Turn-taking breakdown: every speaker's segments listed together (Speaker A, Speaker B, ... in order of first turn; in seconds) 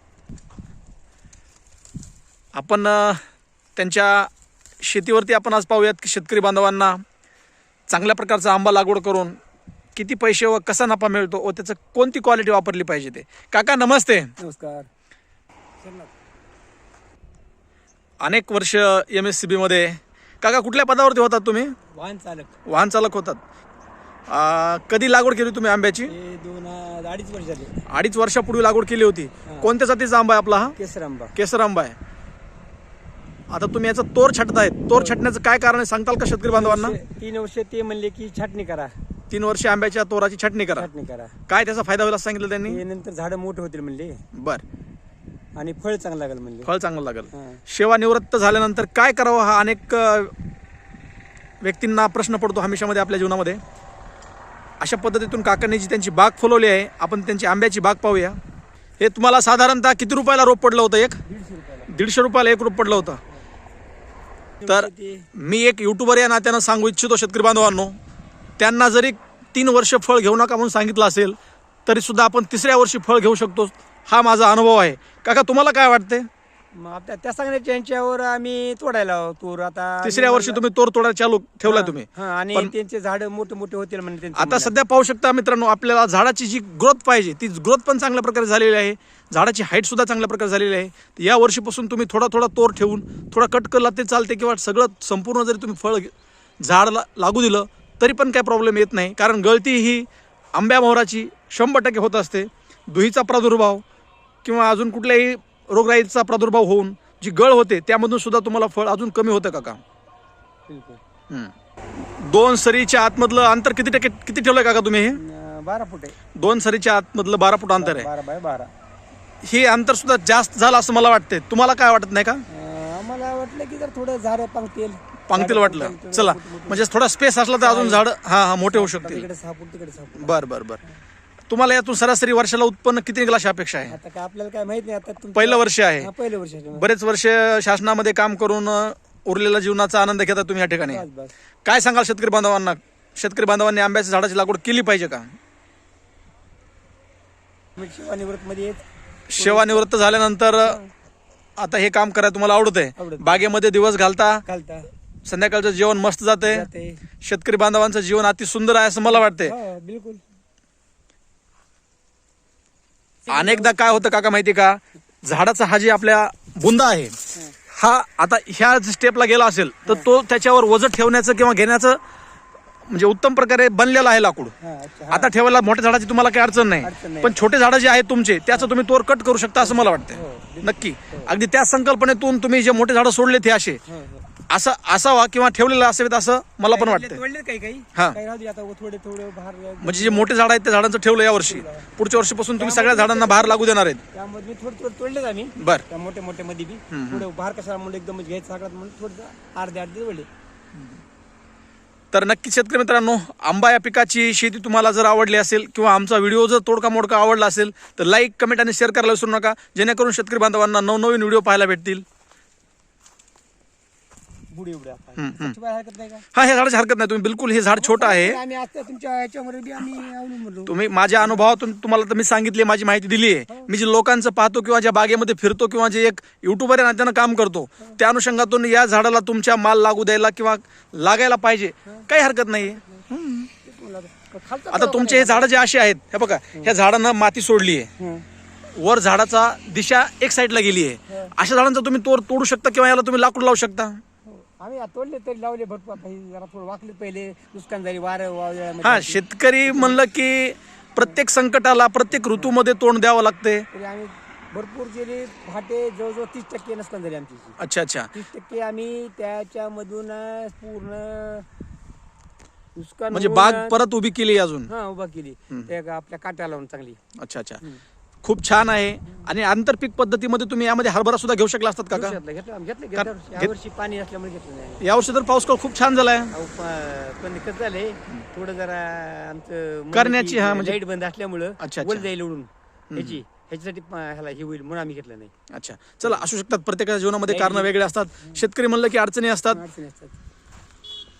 Speaker A: 2.5-3.2, 3.8-4.3, 4.8-7.0, 7.9-9.4, 10.0-14.3, 18.2-21.8, 22.7-23.4, 24.3-26.1, 27.9-30.8, 31.4-32.0, 33.5-37.0, 39.3-40.9, 41.5-42.8, 44.3-44.6, 46.7-50.3, 51.6-53.6, 54.8-58.4, 59.0-61.2, 61.9-63.2, 64.7-68.0, 68.6-76.3, 80.0-82.7, 84.3-103.8, 104.5-109.8, 111.3-115.2, 116.4-118.1, 119.4-122.4, 125.3-129.3, 130.2-130.8, 131.5-133.9, 135.3-136.1, 136.7-141.0, 141.7-145.3, 149.3-150.8, 151.6-154.4, 155.2-156.7, 157.2-159.6, 163.3-167.2, 167.7-172.0, 172.9-174.5, 175.1-183.8, 184.5-187.2, 189.8-194.0, 195.6-195.8, 196.9-197.3, 202.1-212.0, 215.2-215.6, 216.3-218.4, 220.7-233.5, 234.7-237.9, 238.7-244.0, 248.8-253.7, 257.6-258.1, 263.1-264.7, 267.2-267.6, 268.2-272.2, 273.0-273.5, 274.8-276.3, 279.9-280.8, 281.6-282.1, 282.9-283.2, 285.5-289.6
Speaker B: 14.4-14.9, 15.8-16.1, 21.9-22.6, 26.1-27.8, 29.5-29.7, 30.8-31.4, 34.9-35.2, 36.5-39.0, 40.8-41.4, 42.7-44.2, 45.6-46.7, 47.3-47.6, 61.2-62.0, 64.6-65.3, 76.8-80.6, 81.7-84.8, 110.7-111.0, 115.2-116.2, 117.8-118.7, 122.5-126.8, 127.6-128.0, 128.7-131.0, 133.9-136.9, 140.9-141.3, 147.8-149.9, 150.6-150.9, 153.0-153.5, 154.5-154.9, 156.4-157.0, 159.0-160.2, 163.3-164.0, 174.6-175.3, 176.8-177.4, 179.6-181.3, 183.9-184.3, 186.7-190.3, 191.4-191.9, 192.6-200.3, 214.5-216.2, 217.8-221.5, 232.7-233.1, 233.6-235.5, 238.0-238.2, 241.1-241.3, 244.3-250.0, 253.7-257.6, 258.1-261.5, 262.8-263.8, 264.7-267.0, 271.9-274.9, 276.3-285.3, 287.2-288.4, 289.5-290.2